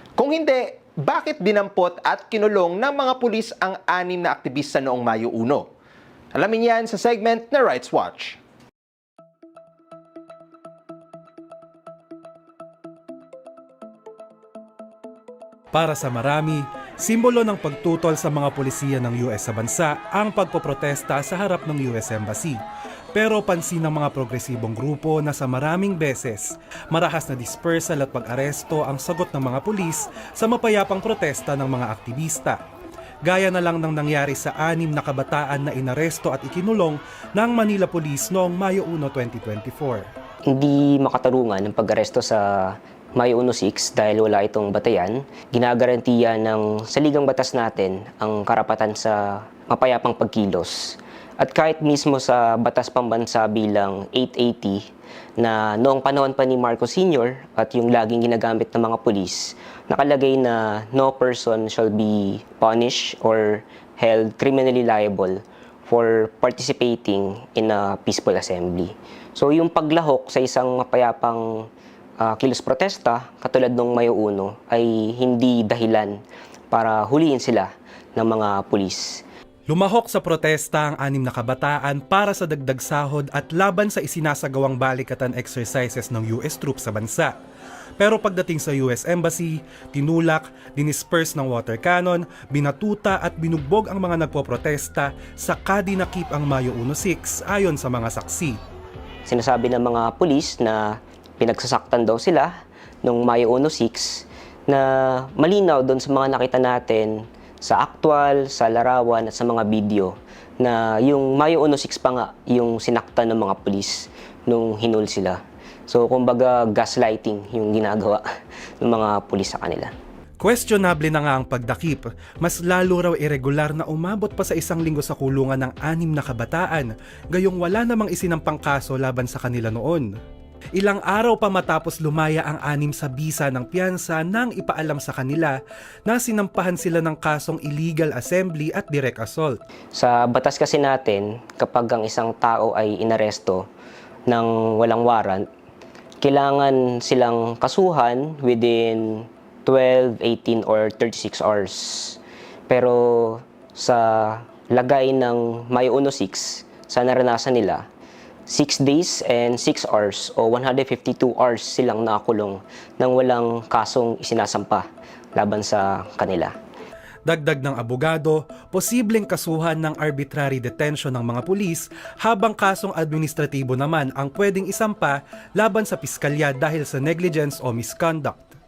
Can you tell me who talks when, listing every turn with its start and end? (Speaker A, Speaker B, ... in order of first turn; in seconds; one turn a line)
Speaker A: 0.2-5.7
Speaker A: 6.3-8.4
Speaker B: 15.7-22.6
Speaker B: 23.1-32.6
Speaker B: 33.3-40.1
Speaker C: 40.5-54.8
Speaker C: 55.4-71.7
Speaker C: 72.2-76.2
Speaker C: 76.7-79.2
Speaker B: 79.7-87.3
Speaker B: 88.0-98.6
Speaker C: 99.3-102.5
Speaker C: 103.0-118.2
Speaker C: 118.8-119.9
Speaker B: 120.4-130.1
Speaker B: 130.8-135.6
Speaker B: 136.1-139.6
Speaker C: 139.9-143.6
Speaker C: 144.3-145.4
Speaker C: 146.2-152.2
Speaker C: 152.7-157.8
Speaker C: 158.5-164.8
Speaker C: 165.4-166.5
Speaker B: 167.3-178.5